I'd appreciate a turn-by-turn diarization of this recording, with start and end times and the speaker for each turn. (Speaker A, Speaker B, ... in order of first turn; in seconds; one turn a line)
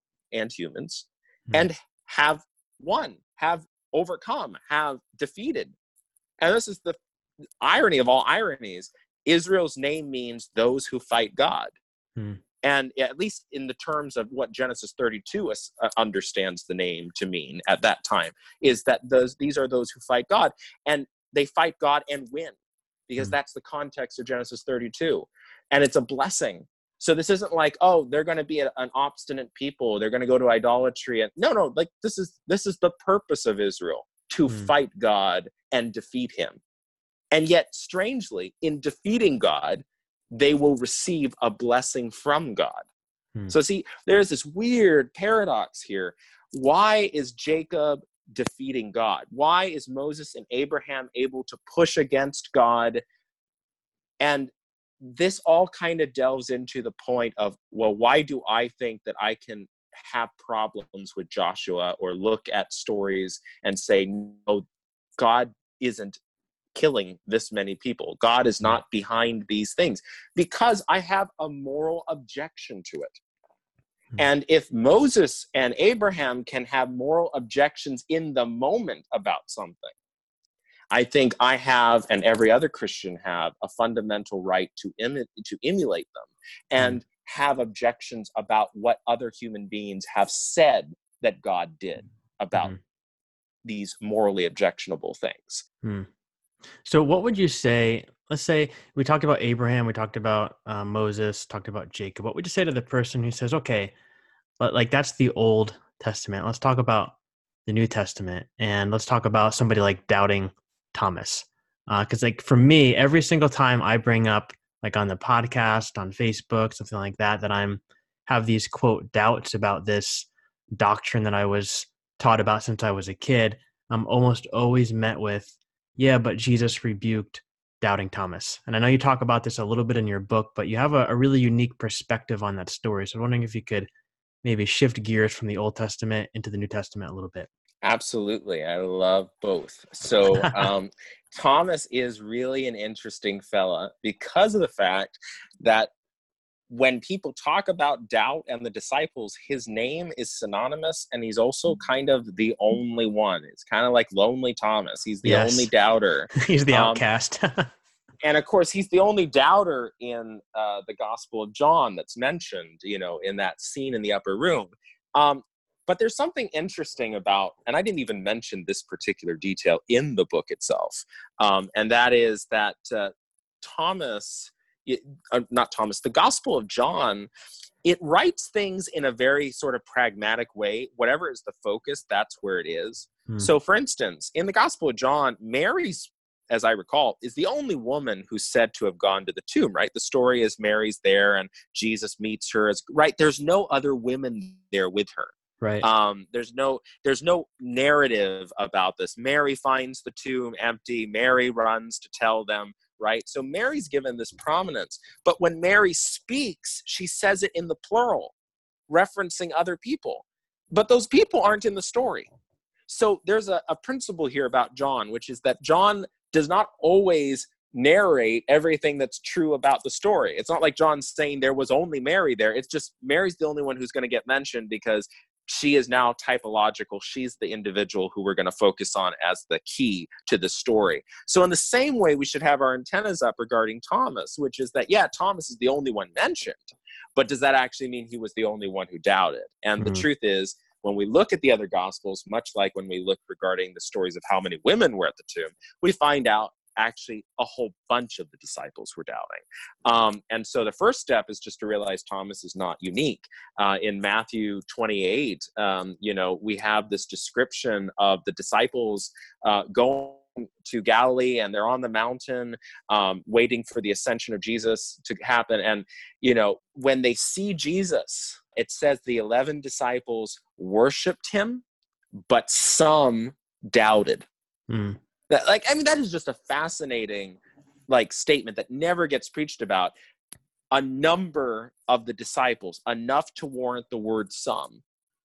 Speaker A: 0.3-5.8
Speaker A: 6.4-7.0
Speaker A: 7.6-11.7
Speaker A: 12.6-22.6
Speaker A: 23.1-36.6
Speaker A: 37.3-42.9
Speaker A: 43.5-53.0
Speaker A: 54.2-64.7
Speaker A: 65.2-66.2
Speaker A: 66.8-73.2
Speaker A: 74.2-79.9
Speaker A: 80.9-92.7
Speaker A: 93.7-95.6
Speaker B: 96.8-103.9
Speaker B: 104.6-107.1
Speaker B: 107.7-133.9
Speaker B: 134.4-137.5
Speaker A: 137.8-145.9
Speaker B: 140.3-140.7
Speaker A: 146.7-157.0
Speaker B: 155.2-155.7
Speaker B: 156.3-157.7
Speaker A: 158.2-177.3
Speaker A: 177.8-208.3
Speaker B: 195.6-195.9
Speaker A: 208.9-212.3
Speaker A: 212.9-271.6
Speaker B: 239.8-240.1
Speaker A: 272.3-274.3
Speaker B: 274.7-275.0
Speaker A: 275.3-279.9
Speaker A: 280.7-284.8